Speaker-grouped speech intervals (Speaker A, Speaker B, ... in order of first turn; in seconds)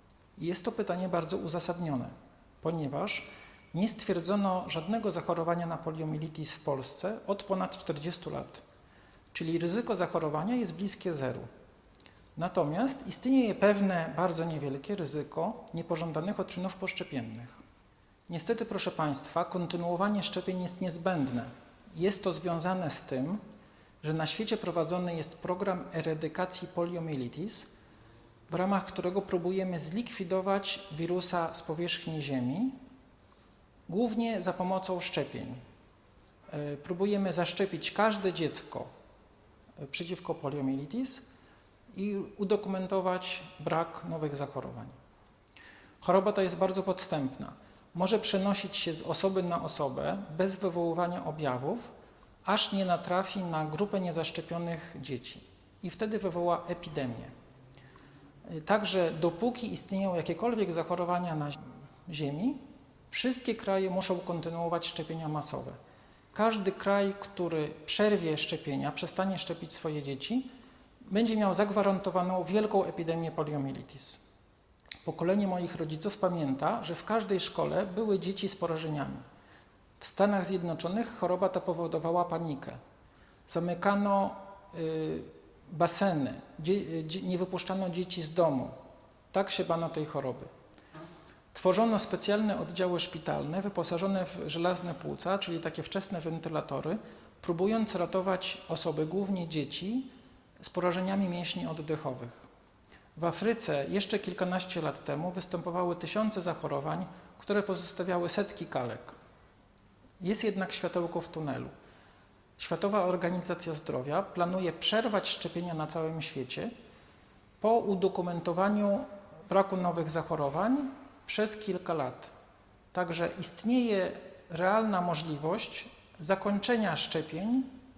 Speaker A: 0.3-8.6, 9.3-11.5, 12.3-17.6, 18.3-23.4, 24.0-27.7, 28.5-32.7, 33.9-35.6, 36.5-38.9, 39.8-41.2, 41.9-45.0, 46.0-51.9, 52.5-57.3, 58.5-65.8, 66.3-70.5, 71.0-74.2, 75.0-79.2, 80.0-82.8, 83.5-88.7, 89.3-90.5, 91.5-100.1, 100.6-102.5, 103.2-109.1, 110.2-111.7, 112.6-116.7, 117.6-122.3, 122.9-127.7